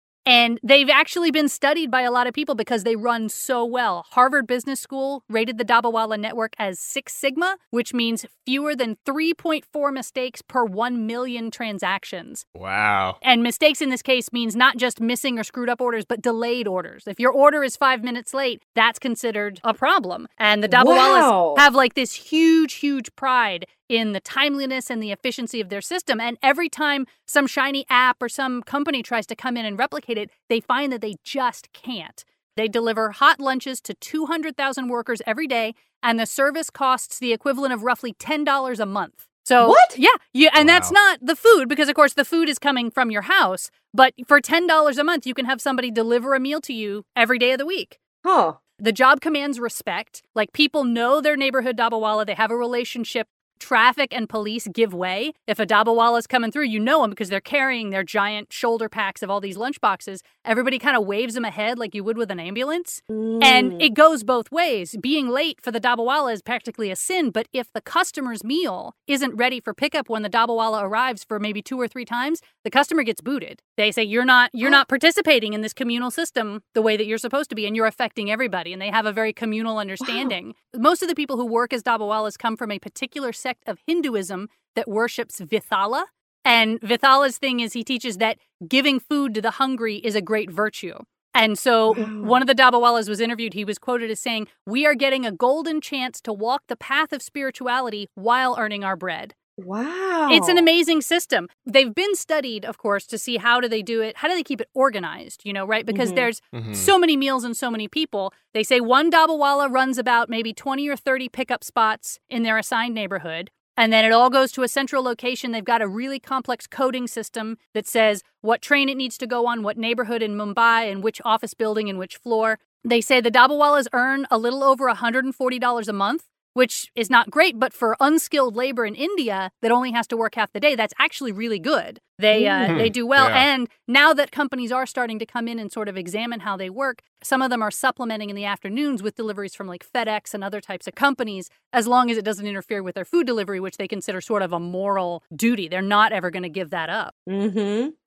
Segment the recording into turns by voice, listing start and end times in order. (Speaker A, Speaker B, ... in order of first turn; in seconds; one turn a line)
Speaker A: 0.2-12.4
Speaker B: 12.5-13.2
Speaker A: 13.2-48.0
Speaker C: 20.7-21.6
Speaker C: 39.6-40.0
Speaker B: 40.6-40.9
Speaker C: 48.2-48.6
Speaker A: 48.8-99.3
Speaker C: 63.1-63.9
Speaker C: 80.0-80.3
Speaker C: 91.9-92.4
Speaker C: 99.6-100.7
Speaker A: 100.3-147.1
Speaker C: 105.9-106.3
Speaker B: 106.5-106.9
Speaker C: 132.3-132.9
Speaker B: 132.7-133.5
Speaker C: 147.3-147.9